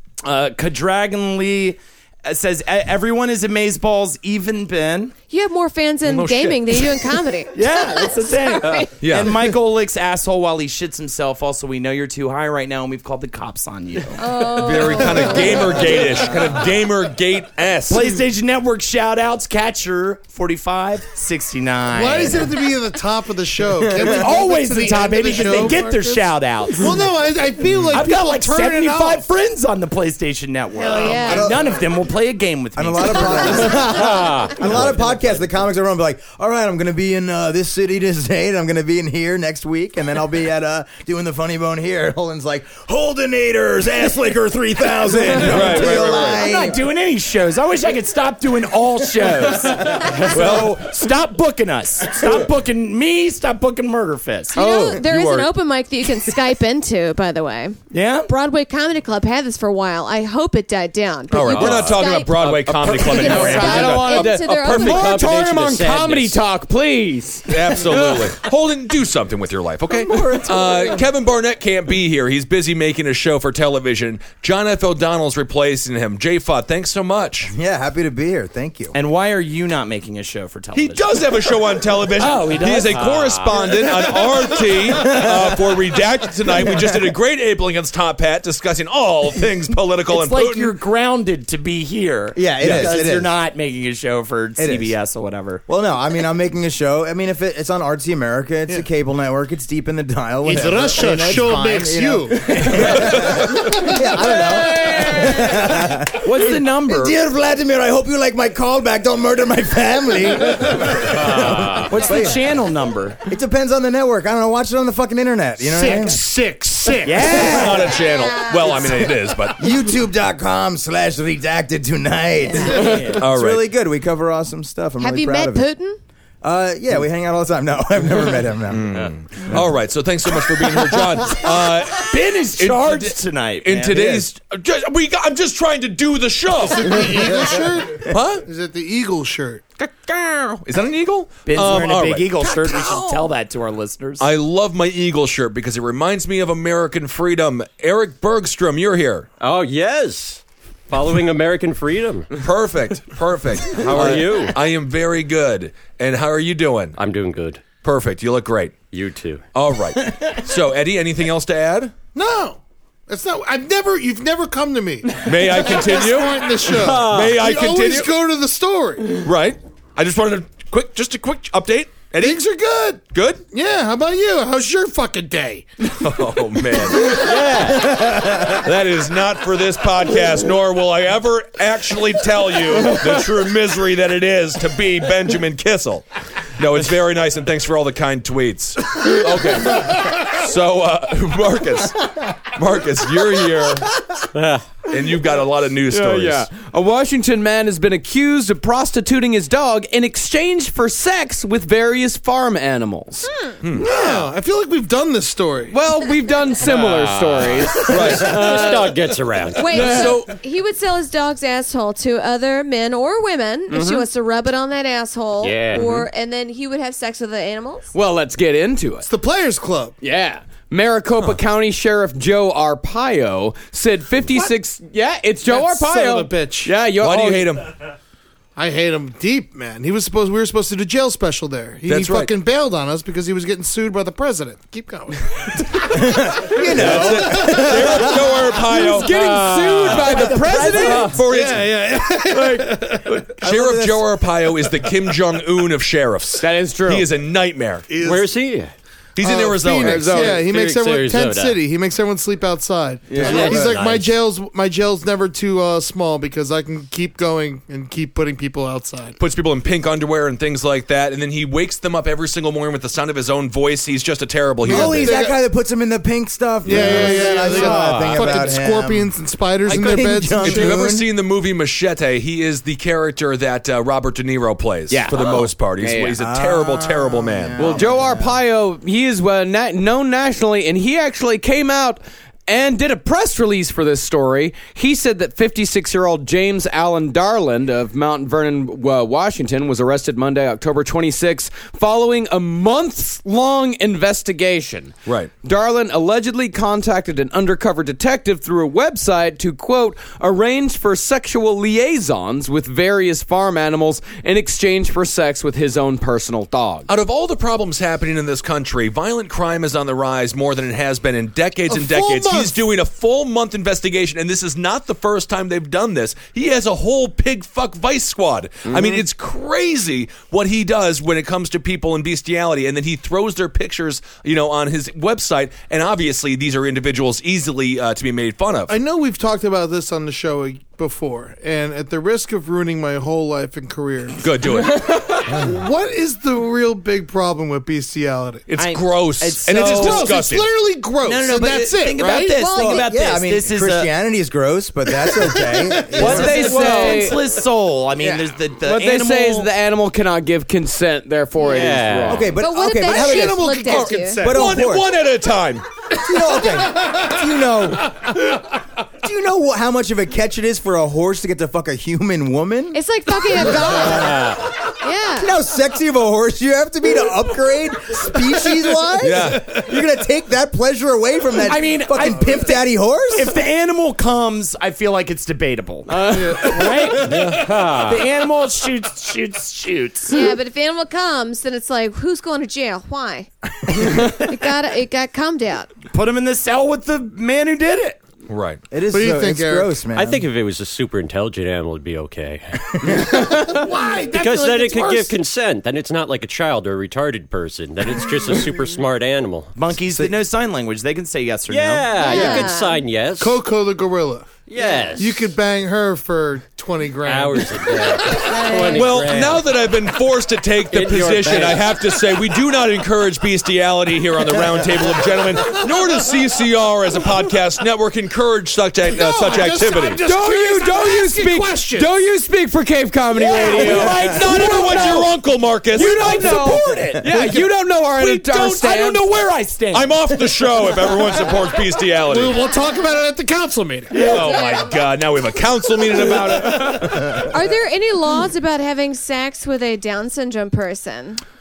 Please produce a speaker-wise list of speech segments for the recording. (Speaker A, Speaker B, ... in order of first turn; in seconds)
Speaker A: 0.2-5.1, 7.5-14.2, 15.7-16.0, 17.9-22.6, 23.9-27.0, 27.9-33.9, 45.7-54.9, 57.9-58.3, 78.9-81.4, 82.2-84.5, 90.1-95.6, 106.2-107.1, 111.3-113.2, 117.0-118.0, 122.5-123.2, 131.4-134.3, 141.4-144.3, 238.8-241.2, 338.6-340.1, 341.0-343.9, 345.9-349.5, 371.4-372.5, 373.1-380.3, 385.9-388.0, 399.6-401.9, 423.2-425.1, 425.7-427.4, 428.0-430.0, 433.9-434.3
Speaker B: 5.3-9.0, 14.1-16.4, 30.7-31.6, 33.0-33.9, 54.5-65.2, 118.2-118.7, 125.0-126.0, 209.5-217.8, 342.2-342.9, 352.4-354.4, 362.7-365.3, 380.1-383.3, 383.8-385.7, 401.9-402.8, 408.2-409.0, 437.2-441.2
Speaker C: 6.0-7.0, 9.0-9.5, 14.5-18.2, 45.3-46.4, 50.2-50.8, 54.9-55.5, 61.3-64.4, 67.5-77.5, 80.7-90.8, 92.6-92.9, 103.1-103.7, 117.2-119.6, 123.1-123.6, 128.7-137.4, 138.1-138.4, 139.8-143.3, 144.2-149.3, 152.4-157.0, 157.8-158.7, 159.5-161.9, 165.2-168.1, 169.1-172.4, 173.1-173.4, 176.0-186.1, 186.6-193.9, 194.9-196.5, 203.6-203.9, 207.8-208.7, 209.7-210.3, 226.9-227.7, 231.8-232.3, 236.7-241.7, 243.4-247.9, 249.2-250.2, 259.2-265.2, 266.7-267.1, 270.4-277.8, 295.1-295.3, 306.9-328.7, 334.2-334.8, 338.5-340.5, 353.7-355.6, 369.0-369.5, 377.0-377.5, 388.3-388.6, 408.7-420.0, 423.5-426.2, 429.7-432.5, 433.9-437.1
Speaker D: 21.9-29.2, 100.4-102.5, 115.6-117.3, 136.5-139.6, 162.1-169.2, 172.2-175.7, 203.8-205.8, 219.1-219.9, 225.4-226.7, 228.6-236.2, 236.9-237.6, 241.2-243.3, 247.9-248.3, 249.2-259.2, 264.6-265.4, 266.6-270.8, 311.7-312.6, 328.7-334.2, 335.1-338.5, 339.5-342.4, 345.0-346.9, 352.8-354.7, 372.1-372.4, 376.1-376.5, 388.9-389.7, 393.2-395.1, 403.2-404.3, 404.9-408.4, 418.8-421.9, 432.0-434.1
Speaker E: 23.9-24.2, 31.1-31.7, 32.8-46.8, 69.9-71.0, 77.5-79.0, 84.9-85.6, 92.3-93.3, 94.6-94.9, 95.7-112.4, 113.3-116.2, 118.9-125.7, 126.4-129.1, 177.8-178.3, 235.9-238.4, 243.4-244.2, 264.6-269.1, 269.6-271.1, 276.2-278.3, 342.5-346.4, 352.1-353.6, 354.2-354.9, 356.0-358.1, 359.0-364.4, 365.1-373.4, 388.7-390.2, 399.9-400.2, 402.0-402.4
Speaker F: 33.9-34.7, 62.9-63.8, 64.6-66.4, 111.4-111.7, 149.4-152.3, 153.7-154.6, 157.0-157.7, 158.9-159.4, 166.6-167.4, 177.0-178.0, 194.3-194.7, 206.6-210.1, 215.4-216.0, 248.0-248.7, 249.9-251.6, 253.2-254.1, 351.4-352.3, 377.3-378.0, 389.9-399.5, 401.5-403.4, 404.5-405.3, 407.0-409.5, 410.7-412.1
Speaker G: 62.9-68.0, 106.3-106.9, 195.9-203.3, 205.7-208.1, 209.8-210.1, 213.7-214.0, 215.7-216.0, 217.9-219.1, 220.0-227.5, 238.6-241.2, 242.3-242.8, 246.4-247.1, 249.6-250.4, 253.1-253.8, 267.3-268.3, 274.9-276.2, 277.6-306.9, 345.9-347.3, 348.0-352.3, 375.9-376.7, 420.0-425.1, 425.7-429.1